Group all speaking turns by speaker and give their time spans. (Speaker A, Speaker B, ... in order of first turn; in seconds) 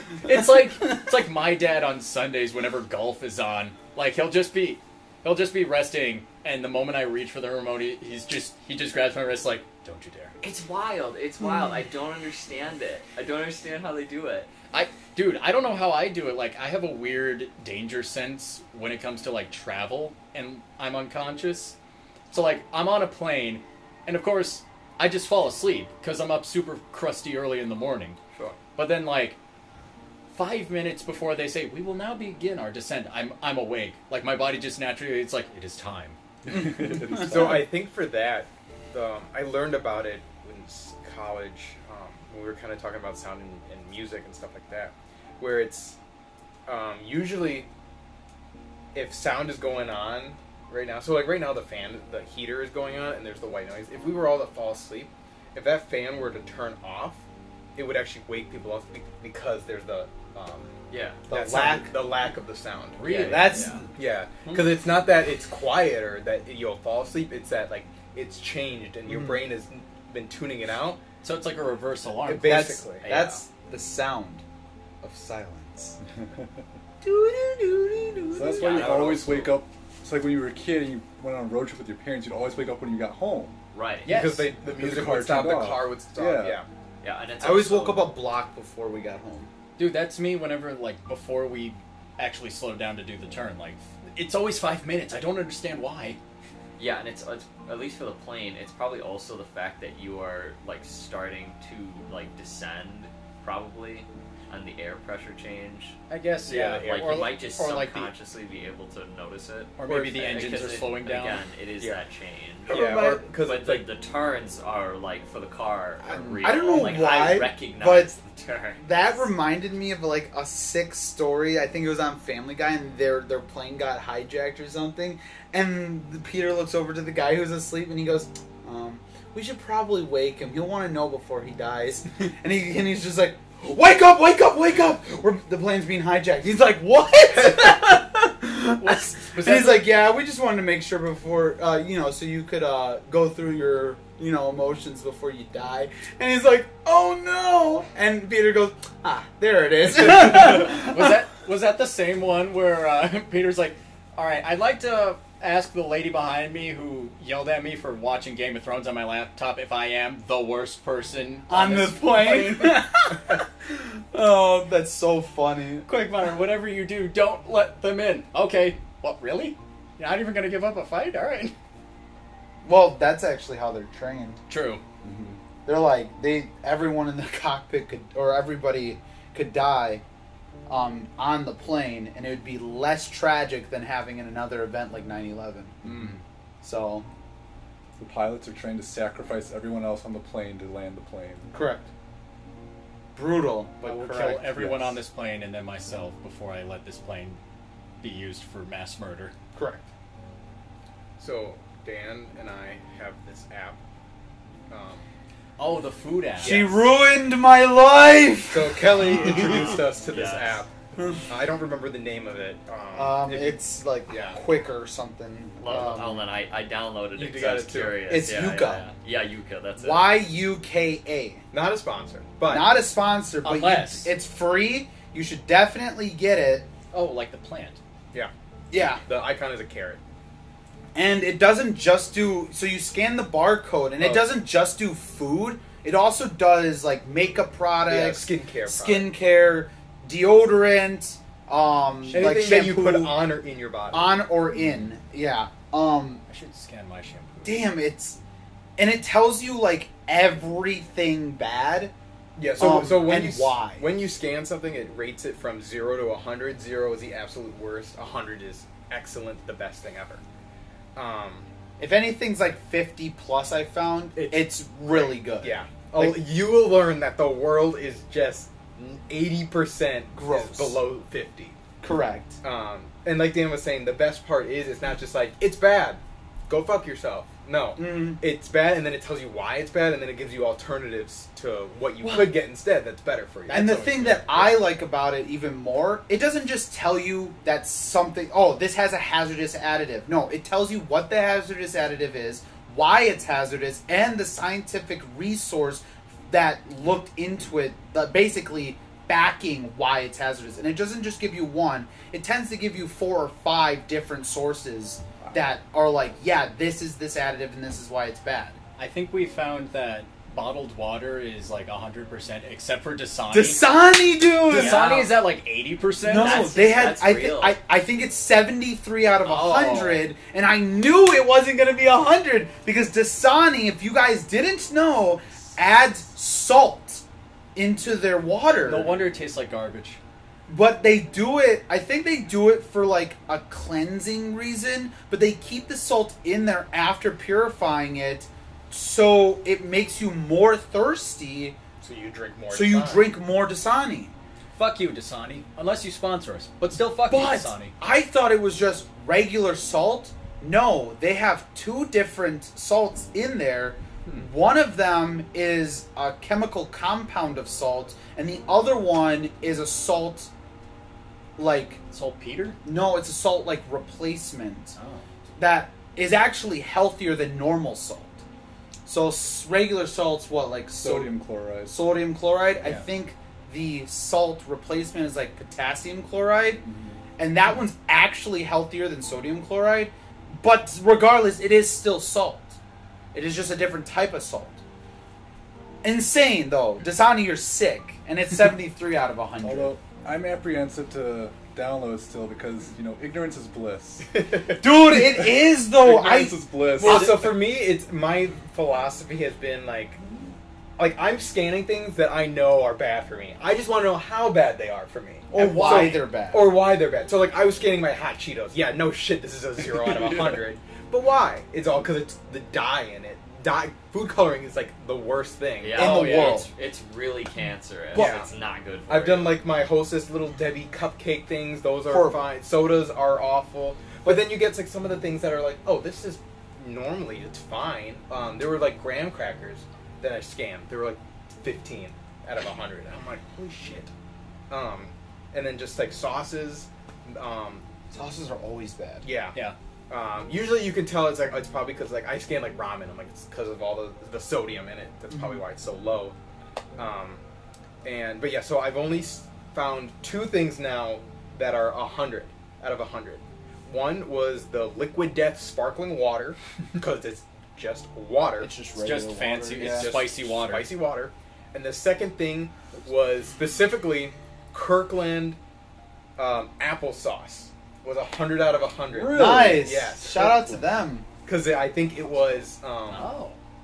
Speaker A: 0.2-10.3, 14.7-21.8, 22.3-28.2, 28.8-29.4, 30.3-36.2, 63.0-63.7, 71.2-72.7, 78.6-79.1, 84.0-84.5, 89.8-96.2, 106.1-108.1, 109.8-111.4, 116.1-117.0, 138.8-139.9, 150.2-162.8, 165.8-171.5, 174.5-174.8, 193.8-197.4, 198.0-199.3, 205.6-206.7, 223.4-224.1, 226.9-227.8, 242.0-242.5, 246.3-247.7, 282.0-282.3, 283.5-284.3, 308.8-313.6, 314.5-316.5, 319.2-320.1, 328.5-330.0, 344.5-347.7, 361.9-362.6, 364.8-365.0, 405.4-406.1, 415.8-416.4, 458.8-460.7, 472.9-473.4
Speaker B: 10.4-14.5, 60.9-61.2, 63.0-63.8, 73.0-73.4, 83.7-84.1, 87.0-88.1, 96.8-106.0, 106.8-112.8, 113.4-118.8, 210.1-210.4, 215.6-220.2, 314.5-315.1, 316.1-317.6, 415.6-419.4
Speaker C: 36.5-37.7, 78.3-83.5, 84.6-86.6, 188.0-191.5, 370.8-371.8, 376.6-377.0, 389.4-394.3, 394.9-397.2, 468.9-469.6
Speaker D: 37.1-46.0, 46.6-47.7, 48.9-57.2, 57.8-60.7, 61.3-63.2, 63.9-71.0, 72.2-73.1, 78.7-79.5, 84.0-86.7, 106.5-107.3, 109.8-110.4, 112.7-113.8, 201.2-203.8, 204.7-205.1, 206.4-206.8, 208.5-210.7, 211.3-214.4, 217.1-218.0, 221.5-222.8, 228.1-230.0, 234.0-234.3, 237.8-239.1, 242.1-244.2, 252.3-260.2, 260.9-261.5, 264.1-271.6, 272.4-284.6, 341.8-343.1, 394.1-394.6, 396.7-400.0, 400.8-416.0, 417.9-418.3, 418.9-433.9, 434.5-437.6, 439.0-439.4, 439.9-446.1, 446.8-447.2, 447.8-458.5, 459.6-465.4, 466.2-470.2, 471.2-473.1
Speaker E: 61.3-61.9, 63.1-63.9, 72.3-74.4, 75.0-76.0, 77.0-78.9, 87.4-89.5, 112.7-113.2, 116.1-118.1, 118.8-151.1, 161.5-165.9, 172.6-174.4, 175.0-180.0, 180.7-187.1, 191.5-191.9, 193.1-195.0, 199.5-199.8, 206.4-209.8, 212.9-216.3, 218.1-218.8, 219.8-221.4, 222.4-226.7, 228.7-229.0, 230.9-243.3, 243.9-246.2, 247.4-248.2, 248.8-251.9, 252.5-253.9, 261.8-266.2, 270.1-270.8, 271.8-272.4, 277.8-278.2, 283.5-308.6, 313.3-315.1, 316.0-327.0, 327.5-329.1, 330.5-341.6, 342.5-344.1, 347.0-360.3, 361.4-361.8, 362.6-364.8, 365.4-368.2, 368.9-371.1, 371.6-376.6, 377.2-382.6, 383.1-384.6, 385.8-389.7, 394.6-397.3, 405.3-406.5, 415.7-416.5, 417.9-418.3, 421.9-422.3, 437.9-439.0, 445.1-445.4, 458.4-459.9, 469.1-471.1